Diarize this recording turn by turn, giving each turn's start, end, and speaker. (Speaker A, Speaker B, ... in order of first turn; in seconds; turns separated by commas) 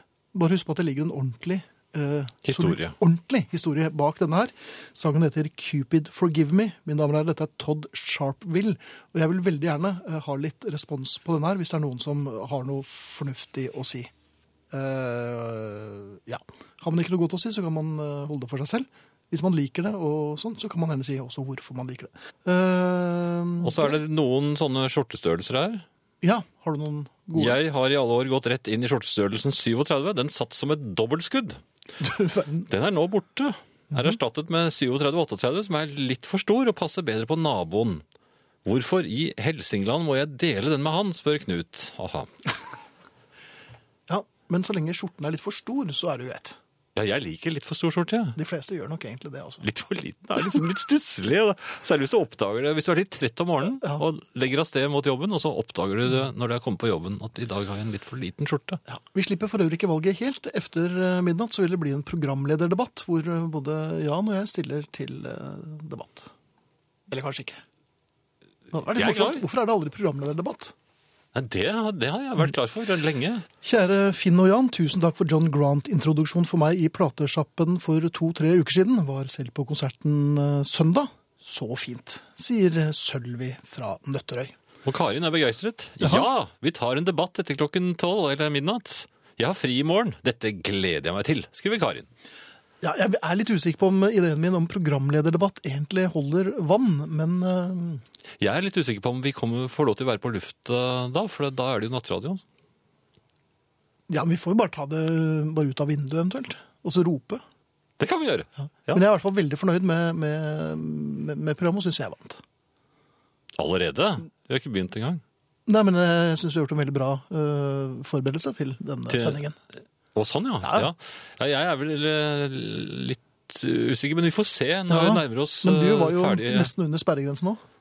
Speaker A: 0.3-14.1, Speaker B: 2.4-2.9, Speaker A: 14.7-24.0, Speaker B: 23.6-25.8, Speaker A: 26.2-27.6, Speaker B: 27.4-31.6, Speaker A: 32.0-32.7, Speaker B: 32.7-38.0, Speaker B: 38.6-42.3, Speaker A: 44.1-46.6, Speaker B: 46.9-48.4, Speaker A: 48.4-49.6, Speaker B: 49.6-58.8, Speaker A: 58.9-66.3, Speaker A: 67.1-67.6, Speaker A: 68.7-70.7, Speaker B: 68.9-69.4, Speaker B: 71.3-73.4, Speaker A: 73.6-84.5, Speaker B: 84.8-92.1, Speaker A: 86.0-86.3, Speaker A: 92.8-98.0, Speaker B: 98.4-102.4, Speaker A: 104.1-107.4, Speaker B: 108.0-109.0, Speaker A: 108.9-112.4, Speaker B: 113.6-115.2, Speaker A: 115.7-119.5, Speaker B: 119.1-119.4, Speaker B: 120.1-126.7, Speaker A: 120.6-120.9, Speaker A: 124.9-127.6